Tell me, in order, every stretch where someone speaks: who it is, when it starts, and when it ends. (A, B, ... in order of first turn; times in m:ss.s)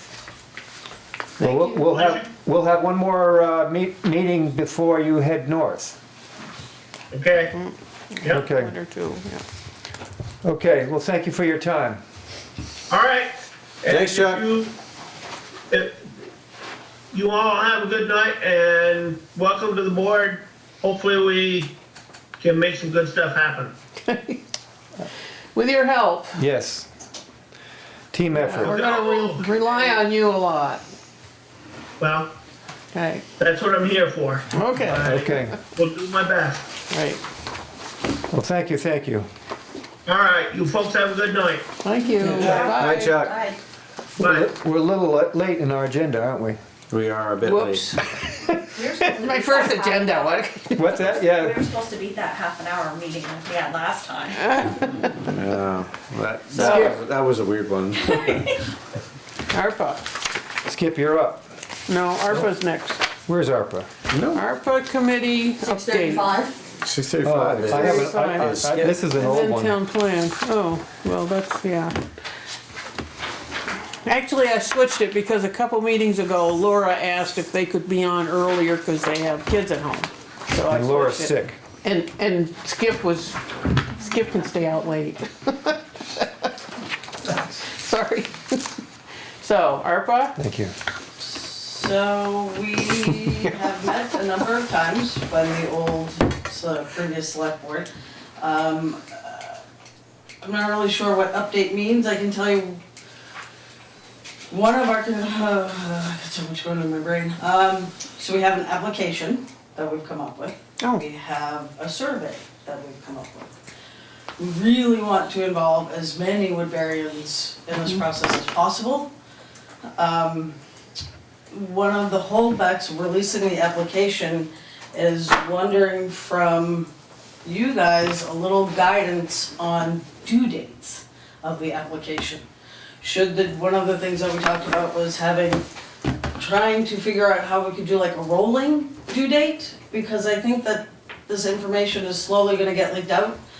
0:01.4-0:01.8 A
0:01.4-0:06.0 B
0:01.9-0:02.2 C
0:07.1-0:07.5 C
0:07.5-0:09.4 A
0:08.2-0:08.7 B
0:10.4-0:12.0 B
0:12.9-0:14.7 C
0:13.9-0:14.4 D
0:15.7-0:16.0 C
0:17.1-0:21.8 C
0:22.4-0:23.7 C
0:24.0-0:24.4 A
0:25.5-0:26.4 A
0:26.4-0:26.9 B
0:28.1-0:28.8 B
0:28.3-0:30.8 A
0:28.6-0:30.0 C
0:32.0-0:32.3 C
0:32.9-0:33.2 A
0:33.4-0:36.7 C
0:34.5-0:35.4 A
0:35.0-0:35.6 B
0:36.9-0:37.2 A
0:38.3-0:39.3 B
0:40.0-0:41.7 C
0:41.8-0:43.2 A
0:42.2-0:43.3 D
0:42.3-0:43.5 E
0:42.4-0:43.4 B
0:44.2-0:46.6 B
0:44.2-0:44.5 C
0:46.9-0:47.9 D
0:47.4-0:48.0 A
0:48.7-0:50.3 E
0:48.8-0:51.1 A
0:50.8-0:51.6 B
0:51.3-0:54.4 E
0:54.3-0:55.2 A
0:55.1-0:58.4 D
0:56.6-0:57.0 A
0:59.5-1:00.0 A
1:00.6-1:01.5 B
1:01.9-1:03.0 A
1:03.3-1:03.9 B
1:04.1-1:04.4 D
1:04.3-1:06.4 A
1:05.7-1:06.5 E
1:06.8-1:09.1 D
1:07.2-1:09.8 B
1:07.7-1:12.0 A
1:14.0-1:26.3 A
1:20.7-1:21.6 B
1:27.6-1:28.8 A
1:29.4-1:30.4 A
1:30.4-1:30.7 B
1:31.2-1:39.6 F
1:40.4-1:42.8 F
1:44.5-1:53.5 F
1:50.8-1:51.0 A
1:54.4-1:59.1 F
1:59.9-2:00.6 F
2:01.5-2:06.9 F
2:07.4-2:12.4 F
2:13.0-2:15.6 F
2:16.3-2:23.4 F